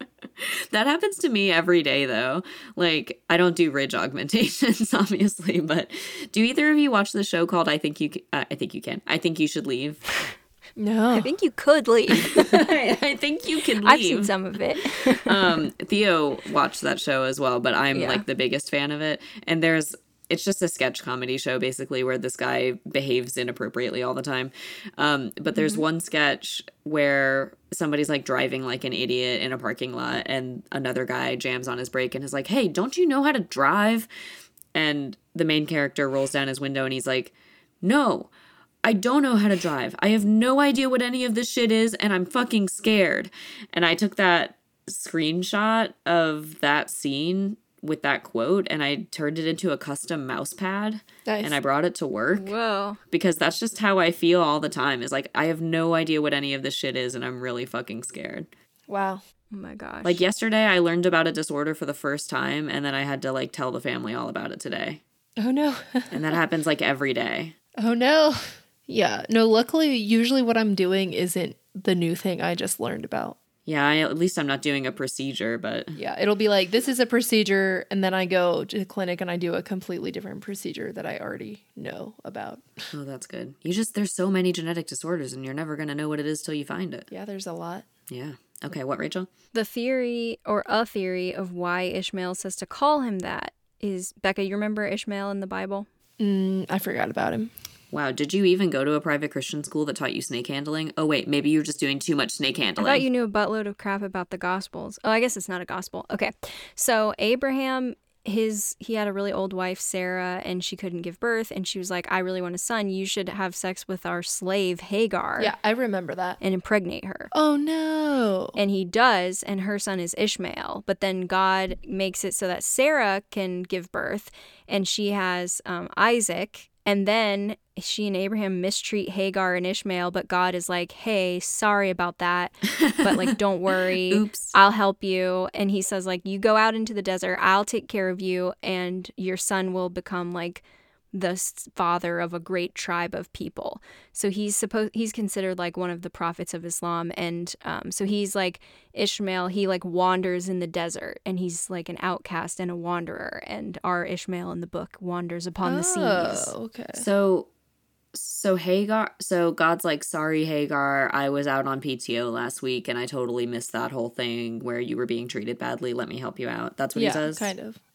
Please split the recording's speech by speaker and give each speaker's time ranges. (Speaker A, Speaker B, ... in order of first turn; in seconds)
Speaker A: 0.4-10.1, 12.1-34.1, 34.7-38.3, 38.8-52.5, 53.1-58.5, 60.0-65.0, 66.1-67.5, 73.7-76.0, 82.9-87.1, 88.1-89.3, 97.9-103.1, 132.8-134.6, 157.0-157.5, 158.1-167.5
Speaker B: 10.8-11.3, 51.3-51.6, 58.9-59.2, 65.4-66.2, 67.8-73.4, 76.0-82.7, 87.1-87.9, 96.2-97.5, 115.4-116.4, 117.3-118.6, 155.6-157.1, 166.9-167.8
Speaker C: 11.1-12.7, 13.8-15.6, 17.9-18.2, 25.6-25.8, 52.3-53.0, 59.5-60.2, 89.5-95.9, 102.8-115.5, 116.4-117.3, 118.6-156.5